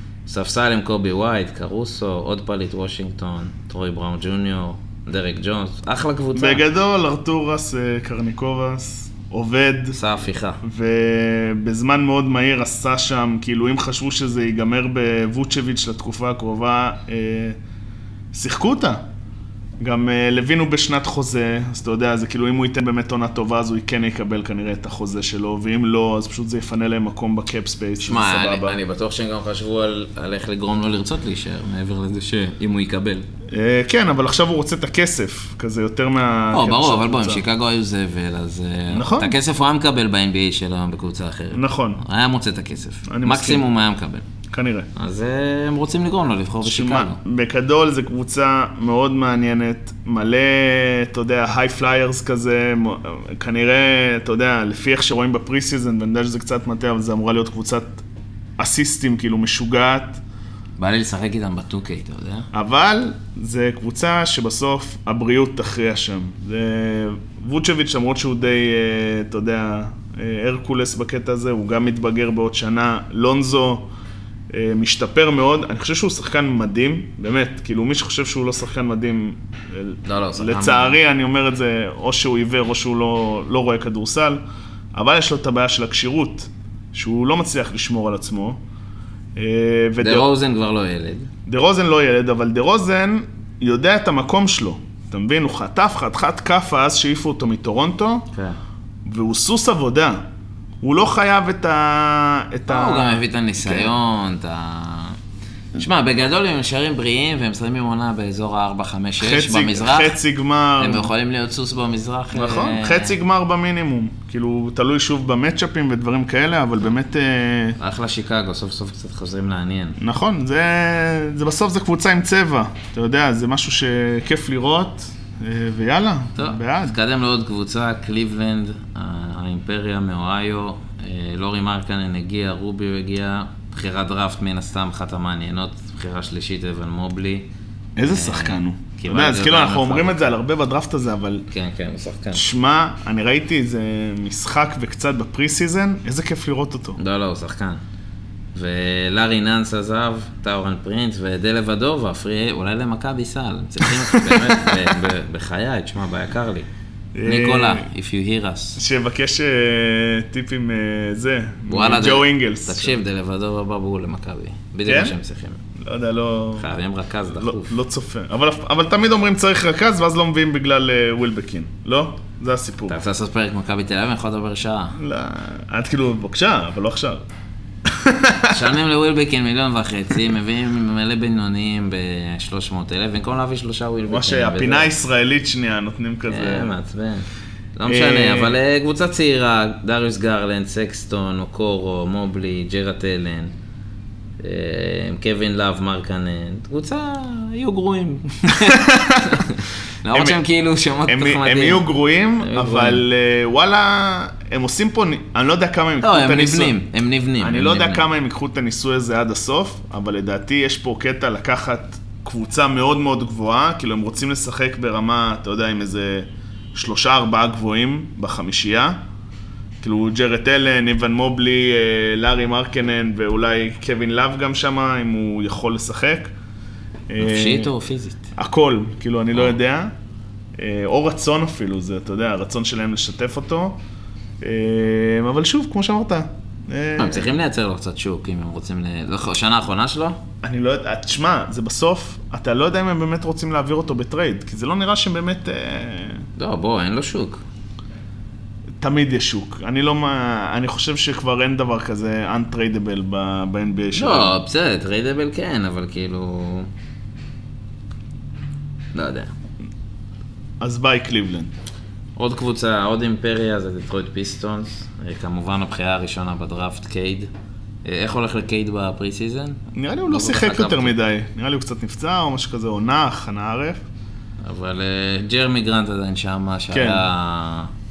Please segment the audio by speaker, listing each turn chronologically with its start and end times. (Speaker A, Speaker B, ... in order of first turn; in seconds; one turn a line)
Speaker A: 0.3-6.6
Speaker B: 6.3-10.0
Speaker A: 9.9-10.6
Speaker B: 10.6-17.6
Speaker B: 18.3-19.0
Speaker B: 19.8-28.8
Speaker A: 28.0-33.3
Speaker B: 33.5-37.4
Speaker A: 36.5-44.3
Speaker B: 38.9-39.4
Speaker B: 41.5-42.0
Speaker B: 43.1-43.6
Speaker B: 44.5-44.9
Speaker A: 45.0-47.2
Speaker B: 46.6-58.0
Speaker B: 58.6-60.2
Speaker A: 60.8-62.5
Speaker B: 62.5-73.9
Speaker B: 74.5-84.4
Speaker A: 80.0-81.0
Speaker B: 84.9-88.6
Speaker B: 89.4-90.3
Speaker A: 90.0-91.3
Speaker B: 91.5-98.3
Speaker A: 98.3-98.6
Speaker B: 99.0-100.2
Speaker B: 100.8-103.9
Speaker A: 102.7-105.2
Speaker A: 105.8-110.2
Speaker B: 109.2-111.1
Speaker A: 110.8-113.2
Speaker B: 112.3-117.8
Speaker A: 117.8-120.0
Speaker B: 120.0-127.0
Speaker A: 126.4-137.5
Speaker B: 138.0-141.5
Speaker A: 138.1-140.3
Speaker A: 141.5-142.4
Speaker B: 142.3-147.0
Speaker A: 147.0-147.8
Speaker A: 148.5-156.7
Speaker B: 153.8-154.9
Speaker B: 157.1-157.9
Speaker A: 157.2-158.8
Speaker B: 158.8-163.0
Speaker A: 161.7-165.6
Speaker B: 164.9-165.2
Speaker B: 165.8-166.7
Speaker A: 166.6-167.8
Speaker B: 167.4-173.0
Speaker A: 172.9-175.0
Speaker B: 175.0-177.2
Speaker B: 177.8-178.6
Speaker A: 178.5-184.9
Speaker B: 184.1-186.8
Speaker A: 186.3-193.5
Speaker B: 187.9-188.6
Speaker A: 194.4-203.0
Speaker B: 198.5-199.4
Speaker B: 200.1-200.4
Speaker B: 201.1-206.8
Speaker A: 206.0-208.1
Speaker B: 207.4-219.0
Speaker B: 219.8-226.3
Speaker B: 227.1-227.7
Speaker A: 227.2-228.3
Speaker B: 228.4-229.9
Speaker B: 230.6-233.8
Speaker B: 234.4-237.3
Speaker A: 237.0-240.2
Speaker B: 240.4-246.2
Speaker A: 246.4-247.4
Speaker B: 248.8-254.4
Speaker A: 253.9-256.7
Speaker A: 258.9-259.3
Speaker B: 260.6-261.5
Speaker A: 262.2-267.3
Speaker A: 267.9-270.9
Speaker B: 269.7-273.8
Speaker A: 274.4-277.7
Speaker B: 276.7-277.1